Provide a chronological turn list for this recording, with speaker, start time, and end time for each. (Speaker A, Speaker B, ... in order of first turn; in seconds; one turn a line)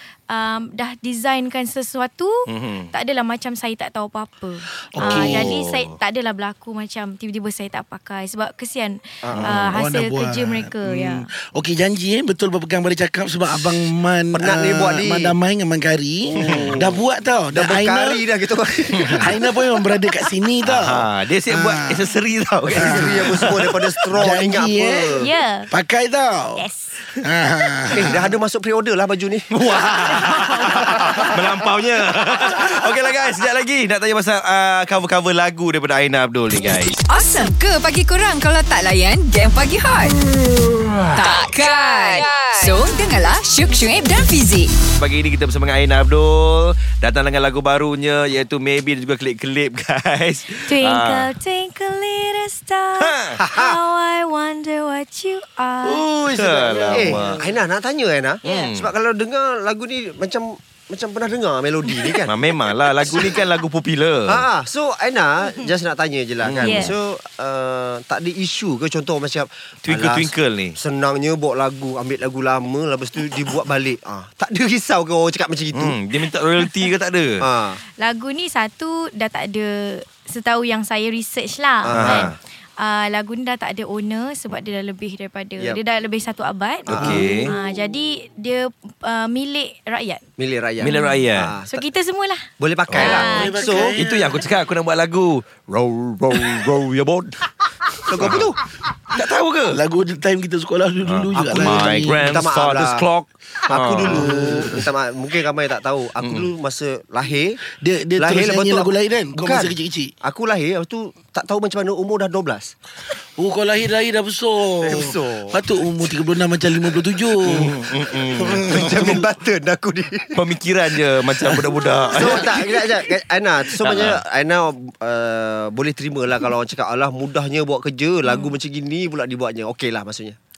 Speaker A: 0.3-2.4
Speaker B: 2.5-2.9
Speaker A: 2.9-11.2
Speaker C: 4.9-5.5
Speaker B: 5.0-5.9
Speaker D: 9.2-9.6
Speaker C: 9.5-22.1
Speaker D: 14.3-15.3
Speaker D: 16.4-17.0
Speaker B: 16.4-16.7
Speaker D: 17.5-20.1
Speaker B: 18.9-19.2
Speaker B: 20.6-23.6
Speaker D: 22.7-25.3
Speaker C: 22.7-23.5
Speaker C: 24.1-26.6
Speaker A: 25.2-25.7
Speaker A: 26.5-26.9
Speaker C: 27.2-28.3
Speaker D: 27.9-29.5
Speaker B: 29.5-37.0
Speaker E: 37.1-40.2
Speaker E: 41.1-44.7
Speaker B: 45.0-51.3
Speaker A: 50.6-56.0
Speaker B: 53.0-53.4
Speaker D: 53.4-53.8
Speaker C: 55.8-57.4
Speaker B: 56.2-57.5
Speaker D: 56.9-62.3
Speaker B: 58.4-58.9
Speaker A: 58.4-58.7
Speaker B: 62.3-64.4
Speaker A: 63.0-63.3
Speaker D: 64.3-76.0
Speaker B: 66.4-66.9
Speaker A: 66.6-66.9
Speaker B: 69.8-70.8
Speaker B: 75.7-77.4
Speaker D: 77.4-77.8
Speaker A: 78.0-90.2
Speaker D: 81.8-82.3
Speaker B: 81.9-82.3
Speaker D: 86.9-87.5
Speaker B: 86.9-87.5
Speaker D: 90.4-91.8
Speaker B: 90.8-91.5
Speaker A: 90.8-93.9
Speaker D: 92.6-94.0
Speaker B: 92.9-93.3
Speaker C: 93.2-94.4
Speaker B: 93.8-98.5
Speaker D: 98.0-98.6
Speaker B: 99.1-99.8
Speaker C: 99.7-102.4
Speaker B: 101.0-104.3
Speaker D: 101.3-103.0
Speaker D: 103.6-107.6
Speaker C: 104.0-104.8
Speaker B: 106.2-106.5
Speaker C: 107.8-110.1
Speaker D: 108.2-112.7
Speaker C: 113.4-117.7
Speaker D: 114.8-115.6
Speaker B: 117.5-119.2
Speaker D: 117.7-120.4
Speaker C: 118.7-119.2
Speaker B: 120.3-123.0
Speaker D: 121.4-130.4
Speaker B: 123.8-124.2
Speaker A: 128.3-128.5